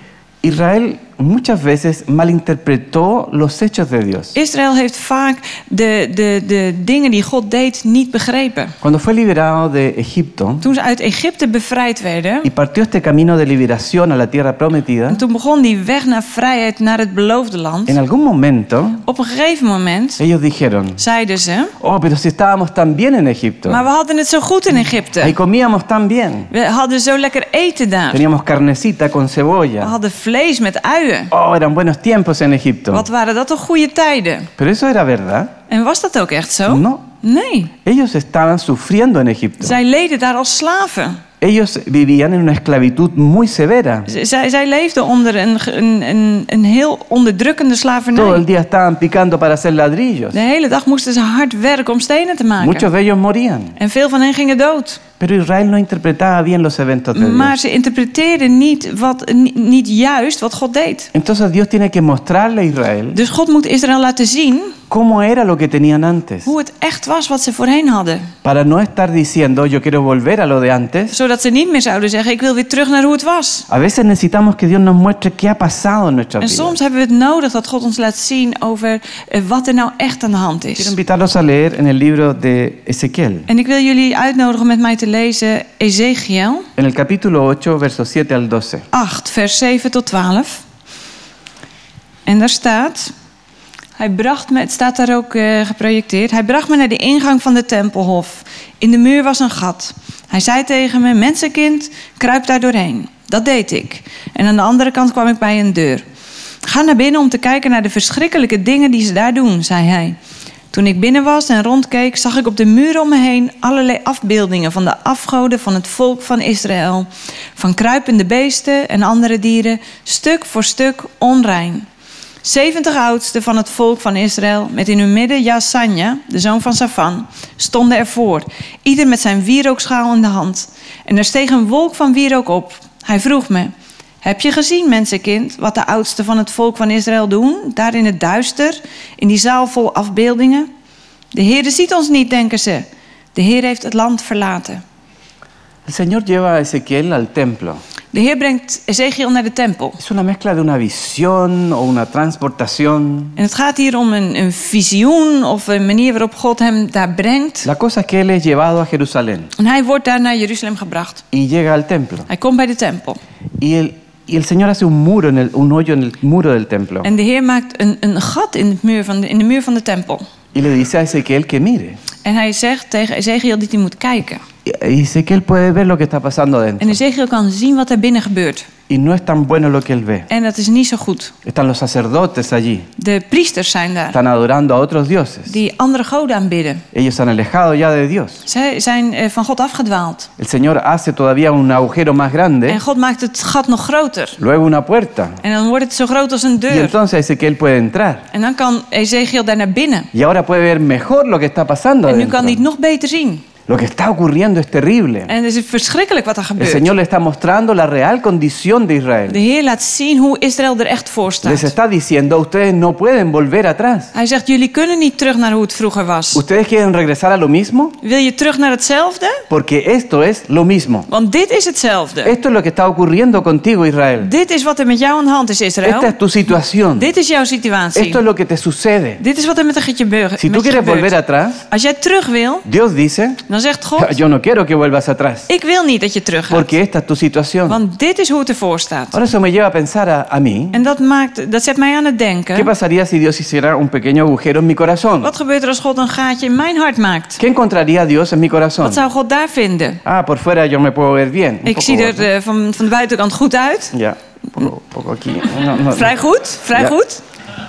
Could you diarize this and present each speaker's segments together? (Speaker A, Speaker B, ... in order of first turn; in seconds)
Speaker A: 0.4-4.3, 8.8-10.7, 12.4-15.2, 17.9-19.0, 20.2-21.0, 21.8-23.8, 25.2-26.5, 28.1-29.9, 31.3-33.1, 34.6-35.5, 36.7-37.0, 37.8-39.8, 41.4-44.1, 48.1-50.4, 52.6-53.8, 55.2-57.5, 61.1-63.2, 64.9-66.5, 68.4-71.2, 73.7-76.8, 80.8-83.5, 86.8-88.9, 145.9-147.8, 150.0-153.4, 157.6-159.5, 161.3-162.3, 163.6-167.1, 170.5-172.0, 174.7-177.0, 178.9-180.3, 181.4-182.9, 184.1-185.6, 186.9-188.4, 190.4-192.8, 194.4-195.4, 196.7-198.2, 200.1-202.6, 203.7-205.3, 206.6-209.4, 211.4-214.1, 216.3-218.0, 219.5-221.1, 222.2-224.3, 225.8-227.1, 227.9-229.2, 230.4-231.6, 232.7-233.4, 234.0-235.5, 236.5-237.8, 239.1-240.8, 242.6-245.3, 247.4-249.0, 250.0-252.3, 253.9-256.1
Speaker B: 4.3-8.7, 10.6-12.5, 15.1-18.0, 19.1-20.2, 21.0-21.7, 23.7-25.4, 26.5-28.2, 29.8-31.3, 32.9-34.5, 35.7-37.7, 39.6-41.2, 44.1-48.4, 50.3-52.9, 53.8-55.0, 57.1-61.1, 63.1-64.8, 66.5-68.3, 71.1-73.7, 76.4-80.9, 83.5-86.7, 88.9-90.6, 92.3-93.1, 94.0-106.0, 106.6-110.2, 110.7-121.9, 122.4-140.7, 141.3-144.8, 148.1-150.0, 153.4-157.7, 159.6-161.2, 162.3-163.2, 167.0-170.3, 172.2-174.4, 176.8-178.7, 180.3-181.3, 183.0-184.2, 185.5-186.8, 188.5-190.3, 192.7-194.4, 195.4-197.0, 198.3-200.1, 202.1-203.4, 205.3-206.9, 209.3-211.7, 214.1-216.4, 218.0-219.4, 221.1-222.3, 224.2-226.2, 226.9-228.2, 229.2-231.2, 231.7-232.7, 233.5-234.2, 235.5-236.7, 237.7-239.2, 240.7-242.7, 245.2-247.4, 248.8-250.0, 251.7-253.9, 255.8-257.2